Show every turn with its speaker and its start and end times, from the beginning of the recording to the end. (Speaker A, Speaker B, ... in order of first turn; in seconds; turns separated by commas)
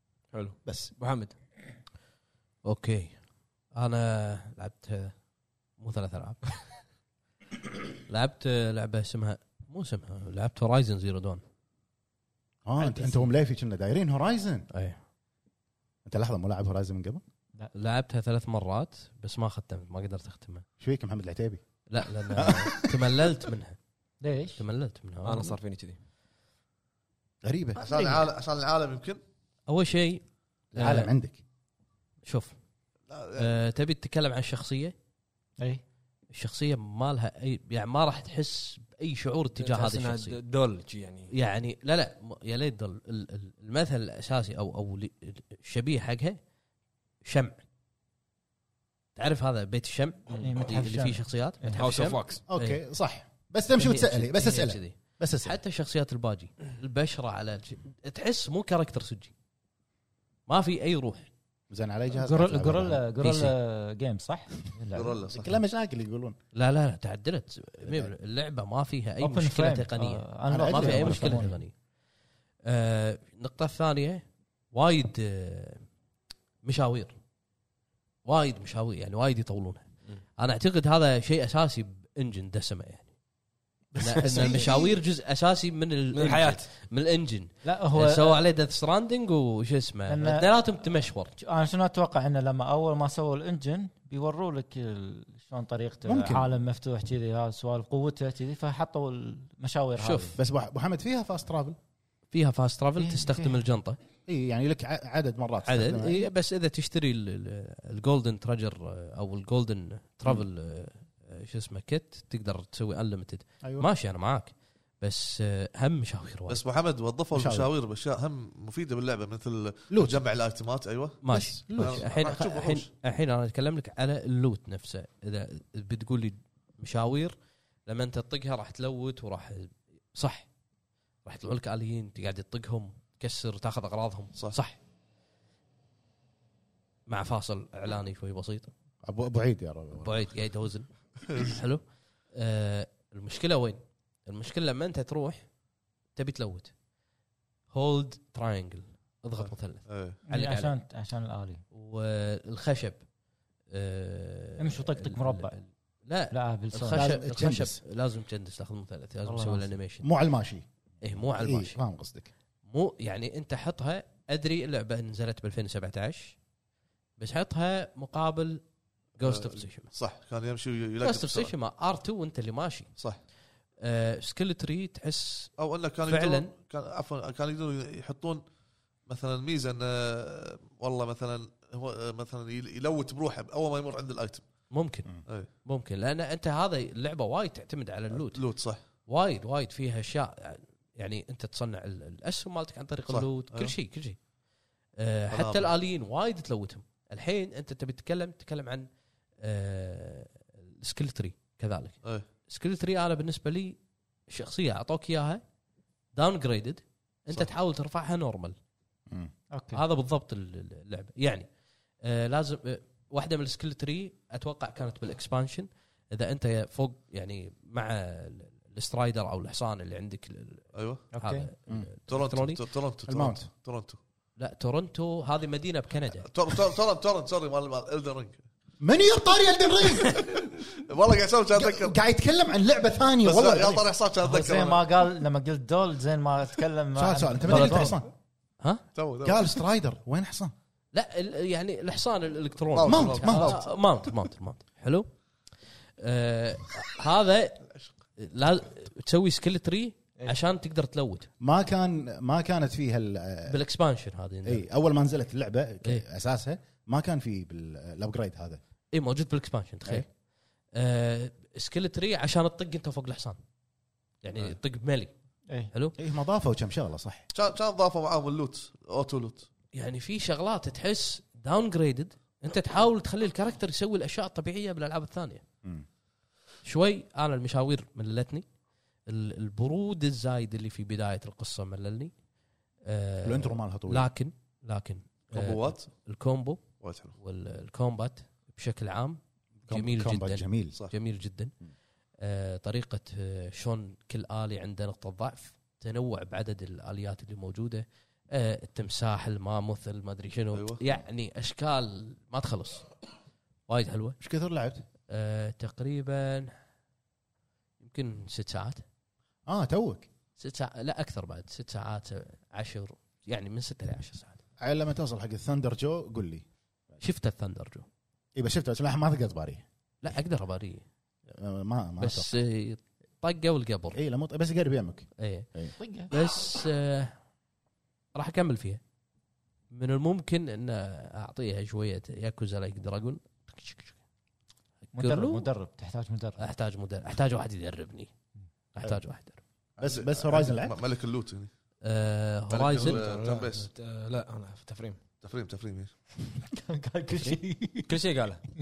Speaker A: 0.3-1.3, Speaker B: 0.7-0.9, Speaker C: 2.6-3.1, Speaker C: 3.7-5.1, Speaker C: 5.8-6.6, Speaker C: 7.6-11.4, Speaker B: 12.6-14.7, Speaker D: 12.8-13.3, Speaker C: 14.7-15.0, Speaker B: 16.1-17.2, Speaker C: 17.7-20.6, Speaker B: 20.8-21.6, Speaker C: 21.9-23.8, Speaker B: 22.3-23.4, Speaker D: 24.2-24.6, Speaker C: 24.6-25.6, Speaker A: 25.2-26.0, Speaker B: 27.4-27.8, Speaker E: 27.8-29.2, Speaker D: 27.9-28.2, Speaker C: 29.7-31.1, Speaker B: 30.7-31.4, Speaker C: 32.2-32.5, Speaker E: 33.1-33.5, Speaker C: 33.4-34.9, Speaker C: 36.3-40.4, Speaker A: 39.5-41.3, Speaker C: 41.3-46.4, Speaker C: 47.2-47.6, Speaker C: 49.1-52.8, Speaker D: 50.4-51.9, Speaker A: 51.7-52.4, Speaker B: 52.5-55.6, Speaker C: 53.8-59.3, Speaker C: 60.5-61.3, Speaker B: 61.7-63.0, Speaker D: 62.1-65.2, Speaker C: 63.2-63.5, Speaker E: 64.9-65.6, Speaker B: 65.3-66.3, Speaker C: 66.5-71.7, Speaker B: 67.8-68.1, Speaker D: 69.2-71.5, Speaker B: 70.5-71.5, Speaker C: 72.6-75.8, Speaker C: 76.6-77.1, Speaker C: 78.2-79.8, Speaker C: 80.4-83.1, Speaker C: 83.9-91.3, Speaker D: 84.2-84.7, Speaker A: 84.4-84.8, Speaker A: 86.1-86.6, Speaker D: 87.6-88.4, Speaker D: 90.1-90.5, Speaker D: 91.4-100.4, Speaker B: 96.0-96.5, Speaker C: 100.0-100.3, Speaker B: 100.4-101.8, Speaker C: 102.3-104.0, Speaker D: 103.0-103.6, Speaker B: 104.3-106.2, Speaker C: 105.6-116.6, Speaker E: 116.5-121.2, Speaker B: 117.3-117.7, Speaker B: 119.9-120.2, Speaker C: 121.2-127.3, Speaker B: 121.3-122.0, Speaker E: 121.7-122.9, Speaker C: 127.8-130.5, Speaker C: 131.2-134.8, Speaker C: 137.1-138.7, Speaker B: 139.0-140.2, Speaker C: 140.0-141.8, Speaker E: 141.2-141.6, Speaker C: 142.3-145.4, Speaker C: 146.2-146.7, Speaker C: 147.7-150.7, Speaker E: 149.8-150.2, Speaker D: 150.3-151.6, Speaker C: 151.7-153.0, Speaker C: 153.7-160.1, Speaker D: 154.6-155.6, Speaker D: 156.3-157.0, Speaker B: 156.9-157.8, Speaker D: 159.2-159.7, Speaker B: 160.0-162.3, Speaker C: 161.0-161.8, Speaker C: 162.7-166.3, Speaker C: 167.2-168.6, Speaker C: 169.2-169.9, Speaker E: 169.2-171.5, Speaker C: 171.0-172.9, Speaker C: 173.8-175.5, Speaker E: 175.6-178.4, Speaker C: 176.1-176.5, Speaker E: 179.1-184.4, Speaker C: 184.7-185.1, Speaker C: 185.6-188.4, Speaker E: 188.1-188.8, Speaker C: 189.1-194.2, Speaker E: 193.1-193.7, Speaker C: 195.0-198.9, Speaker E: 195.3-195.7, Speaker C: 199.4-203.8, Speaker C: 204.3-205.4, Speaker C: 206.1-208.6, Speaker D: 209.5-209.8, Speaker C: 209.7-211.5, Speaker C: 212.0-222.6, Speaker E: 220.7-221.1, Speaker D: 221.1-221.5, Speaker E: 222.1-224.0, Speaker B: 223.1-223.5, Speaker C: 224.4-226.3, Speaker E: 226.2-228.4, Speaker B: 228.8-230.3, Speaker E: 230.2-232.0, Speaker B: 231.5-233.8, Speaker E: 233.2-234.8, Speaker D: 234.2-237.9, Speaker B: 236.9-238.1, Speaker C: 237.5-238.0, Speaker E: 238.9-239.5, Speaker B: 239.2-240.5, Speaker C: 240.9-245.1, Speaker E: 242.7-243.6, Speaker B: 242.8-243.6, Speaker C: 246.0-251.3, Speaker B: 251.4-253.6, Speaker C: 253.5-254.7, Speaker B: 254.4-258.6, Speaker C: 258.9-260.1, Speaker C: 260.7-263.4, Speaker C: 264.2-265.1, Speaker C: 265.7-265.9, Speaker B: 266.0-267.2, Speaker E: 267.3-269.5, Speaker C: 269.7-275.4, Speaker C: 276.6-278.4, Speaker C: 279.1-282.1, Speaker C: 282.9-291.5, Speaker B: 283.2-284.1, Speaker E: 285.3-285.9, Speaker E: 286.8-287.1, Speaker B: 289.7-290.8, Speaker C: 292.2-302.9, Speaker E: 300.5-300.8, Speaker C: 303.7-304.2, Speaker B: 304.2-304.8, Speaker C: 305.1-306.5, Speaker C: 307.8-308.8, Speaker B: 309.5-310.1, Speaker C: 310.4-314.4, Speaker B: 314.6-316.4, Speaker C: 317.0-317.9, Speaker B: 318.4-319.6, Speaker C: 320.0-320.8, Speaker B: 321.3-322.3, Speaker C: 322.0-324.0, Speaker B: 323.9-325.7, Speaker C: 325.2-325.5, Speaker D: 325.8-326.1, Speaker C: 326.1-327.1, Speaker C: 328.1-328.8, Speaker C: 329.7-333.9, Speaker C: 334.9-335.5, Speaker D: 334.9-336.4, Speaker C: 336.4-338.1, Speaker C: 338.7-339.4, Speaker B: 339.8-340.8, Speaker E: 339.8-341.5, Speaker C: 341.8-343.0, Speaker E: 342.5-343.7, Speaker A: 342.7-345.0, Speaker E: 345.2-345.9, Speaker D: 346.5-347.9, Speaker A: 347.9-348.4